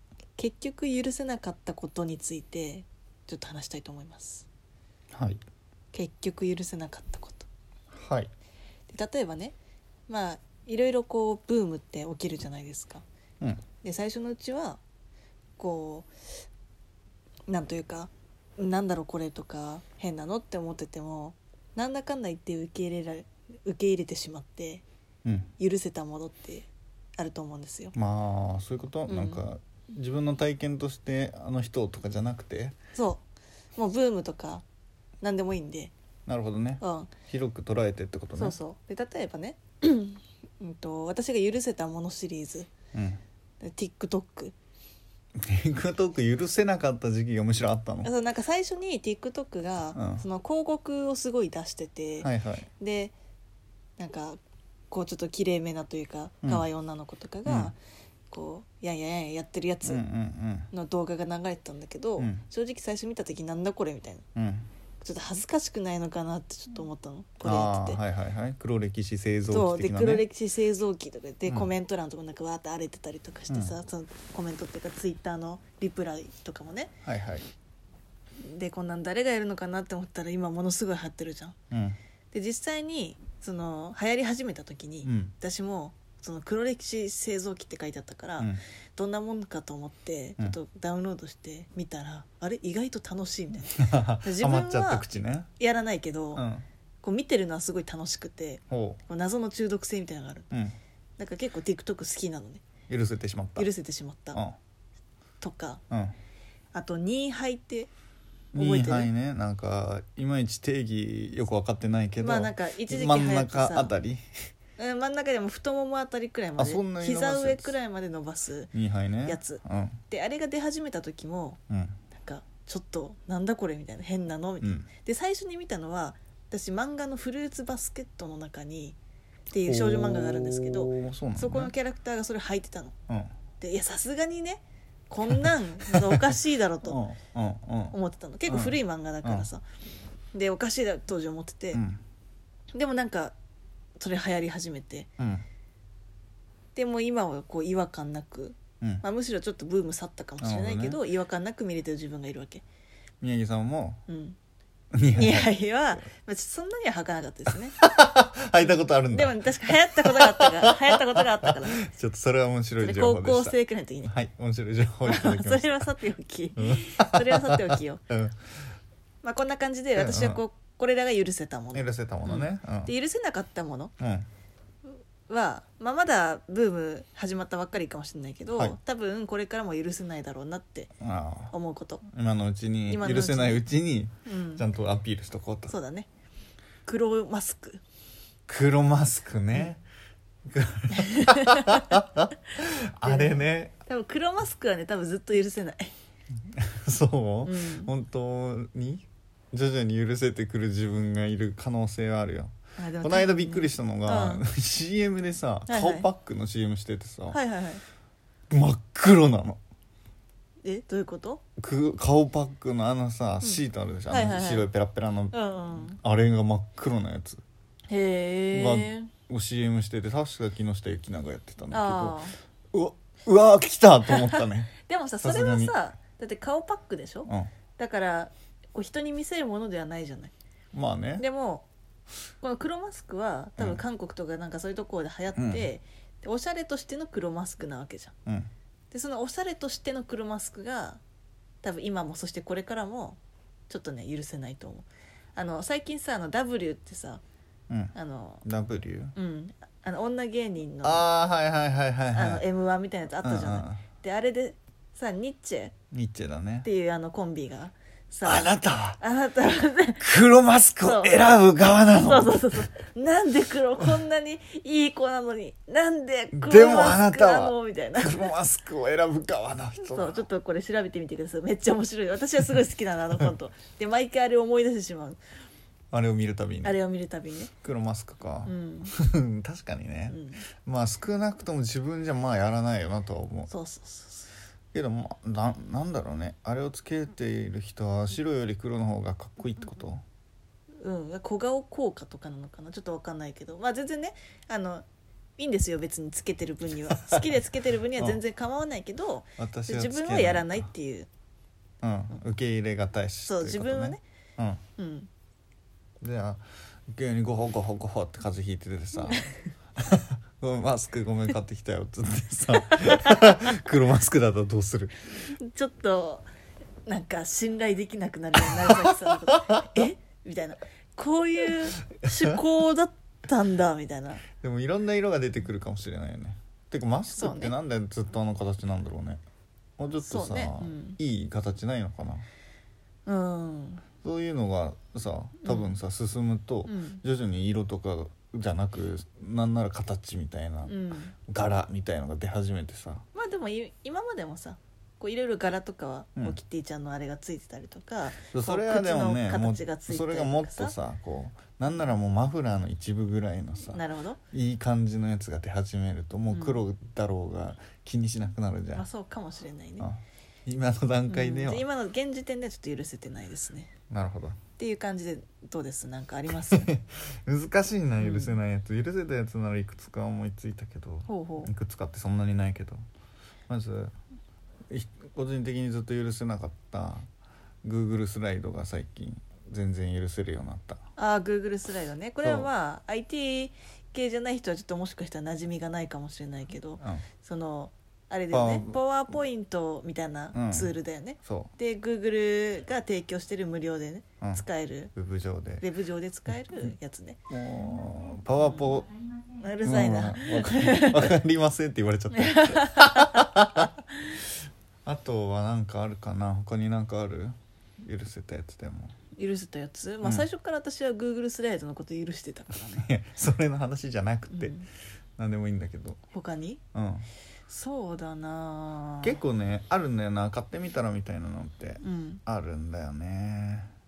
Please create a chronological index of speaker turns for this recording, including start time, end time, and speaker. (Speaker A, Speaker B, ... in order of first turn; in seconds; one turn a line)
Speaker A: 0.4-4.5
Speaker B: 5.1-5.4
Speaker A: 5.9-7.5
Speaker B: 7.9-8.3
Speaker A: 8.9-9.6
Speaker A: 10.1-13.0
Speaker A: 13.8-14.8
Speaker A: 15.6-16.1
Speaker A: 17.5-24.8
Speaker B: 25.2-25.5
Speaker A: 25.6-27.9
Speaker B: 27.9-32.7
Speaker A: 29.1-29.4
Speaker A: 32.9-33.2
Speaker A: 33.8-34.6
Speaker A: 35.2-35.9
Speaker B: 36.3-38.5
Speaker A: 36.8-37.1
Speaker A: 38.4-42.7
Speaker B: 42.9-43.2
Speaker A: 43.6-44.5
Speaker B: 45.4-48.1
Speaker A: 48.0-53.1
Speaker B: 49.9-50.2
Speaker B: 52.2-52.7
Speaker A: 54.0-54.4
Speaker A: 54.9-57.8
Speaker B: 57.5-57.7
Speaker A: 58.3-60.0
Speaker B: 59.8-60.7
Speaker A: 60.7-64.2
Speaker B: 62.2-62.4
Speaker B: 64.3-64.7
Speaker A: 65.0-68.0
Speaker B: 67.4-70.2
Speaker A: 69.5-76.9
Speaker B: 73.5-73.7
Speaker B: 77.0-77.5
Speaker A: 78.4-81.5
Speaker B: 81.7-82.0
Speaker A: 82.3-95.0
Speaker B: 85.0-85.3
Speaker B: 93.7-95.5
Speaker A: 95.6-96.4
Speaker B: 96.3-96.7
Speaker A: 97.0-100.5
Speaker B: 98.7-99.0
Speaker A: 101.2-102.6
Speaker B: 102.9-103.7
Speaker A: 103.6-104.4
Speaker A: 105.4-105.8
Speaker B: 105.9-106.2
Speaker A: 106.7-107.9
Speaker B: 108.5-114.2
Speaker A: 108.5-109.1
Speaker A: 112.2-113.9
Speaker A: 114.8-118.7
Speaker B: 116.6-117.7
Speaker B: 118.7-120.0
Speaker A: 119.2-121.6
Speaker B: 121.7-122.0
Speaker A: 122.1-129.0
Speaker B: 124.6-124.9
Speaker A: 129.5-132.9
Speaker B: 129.6-131.7
Speaker A: 133.6-137.0
Speaker B: 135.3-136.3
Speaker B: 136.8-137.9
Speaker A: 137.9-139.6
Speaker B: 138.5-139.5
Speaker A: 140.3-141.8
Speaker B: 141.7-142.0
Speaker A: 142.7-143.3
Speaker A: 144.0-145.1
Speaker B: 145.2-145.4
Speaker A: 146.7-152.6
Speaker B: 150.4-151.0
Speaker B: 153.2-154.0
Speaker A: 154.1-154.4
Speaker B: 154.9-156.0
Speaker A: 155.1-157.8
Speaker B: 157.8-165.9
Speaker A: 158.6-161.8
Speaker A: 162.8-164.1
Speaker A: 165.0-168.0
Speaker B: 166.6-168.4
Speaker A: 169.2-173.9
Speaker B: 169.9-170.4
Speaker B: 171.7-172.9
Speaker B: 174.0-174.3
Speaker A: 175.3-180.9
Speaker B: 181.0-181.5
Speaker A: 181.5-182.0
Speaker B: 182.1-185.7
Speaker A: 182.9-183.6
Speaker A: 184.2-184.6
Speaker A: 185.7-186.1
Speaker A: 186.8-187.8
Speaker B: 188.5-189.8
Speaker B: 190.5-193.8
Speaker A: 190.9-191.9
Speaker A: 193.0-195.9
Speaker B: 196.5-207.4
Speaker A: 197.4-197.9
Speaker A: 202.8-204.4
Speaker A: 205.7-206.1
Speaker A: 207.3-207.8
Speaker B: 208.5-209.6
Speaker A: 210.6-211.4
Speaker B: 211.6-215.3
Speaker A: 213.4-214.7
Speaker A: 215.3-216.0
Speaker B: 215.9-217.4
Speaker A: 217.9-219.1
Speaker B: 218.5-225.8
Speaker A: 221.7-222.3
Speaker A: 224.1-230.3
Speaker B: 230.7-231.2
Speaker A: 231.2-231.7
Speaker A: 232.4-238.1
Speaker B: 233.6-233.8
Speaker B: 235.3-235.6
Speaker A: 238.9-241.0
Speaker A: 241.6-247.2
Speaker B: 247.7-247.9
Speaker A: 247.9-248.4
Speaker B: 248.4-249.1
Speaker A: 249.2-251.1
Speaker B: 250.8-252.4
Speaker A: 252.1-255.7
Speaker B: 253.2-253.8
Speaker B: 255.9-256.7
Speaker A: 256.6-260.0
Speaker B: 258.2-259.0
Speaker B: 260.0-262.6
Speaker A: 260.8-261.3
Speaker A: 261.9-268.3
Speaker B: 266.3-270.2
Speaker A: 269.8-275.2
Speaker B: 275.9-276.8
Speaker A: 276.6-277.5
Speaker B: 277.6-283.5
Speaker A: 278.4-278.9
Speaker A: 280.1-280.4
Speaker A: 283.5-284.3
Speaker B: 284.7-290.0
Speaker A: 290.8-294.8
Speaker A: 295.4-301.1
Speaker B: 299.4-300.7
Speaker B: 301.8-304.6
Speaker A: 303.3-304.0
Speaker A: 304.8-305.1
Speaker B: 306.0-314.9
Speaker A: 309.1-309.3
Speaker A: 312.7-313.2
Speaker A: 315.4-316.3
Speaker A: 316.9-324.2
Speaker B: 324.4-329.2
Speaker A: 327.1-327.5
Speaker B: 329.8-332.2
Speaker A: 330.0-331.0
Speaker A: 333.1-333.8
Speaker B: 334.0-343.0
Speaker A: 335.4-335.8
Speaker A: 336.6-337.0
Speaker A: 340.6-341.1
Speaker A: 343.1-350.7
Speaker B: 348.3-353.8
Speaker A: 353.7-354.2
Speaker B: 354.3-358.9
Speaker A: 356.3-356.6
Speaker A: 358.7-359.9
Speaker B: 359.8-361.6
Speaker A: 361.1-363.7
Speaker B: 363.9-364.4
Speaker A: 364.6-366.7
Speaker B: 366.4-372.8
Speaker A: 368.0-368.4
Speaker A: 371.1-371.5
Speaker B: 373.5-373.9
Speaker B: 374.7-377.1
Speaker B: 377.6-380.8
Speaker A: 381.0-394.9
Speaker B: 382.2-382.5
Speaker B: 386.8-387.0
Speaker B: 388.3-388.8
Speaker B: 390.3-390.7
Speaker B: 391.2-391.5
Speaker B: 394.2-395.6
Speaker A: 395.6-397.2
Speaker B: 397.3-398.9
Speaker A: 399.4-401.1
Speaker B: 399.6-403.7
Speaker A: 402.1-403.7
Speaker B: 404.8-408.9
Speaker A: 409.1-412.9
Speaker B: 412.7-414.5
Speaker A: 414.3-414.7
Speaker B: 415.2-416.0
Speaker A: 416.1-416.6
Speaker B: 416.7-417.1
Speaker A: 417.5-419.2
Speaker B: 419.0-423.7
Speaker A: 421.8-422.2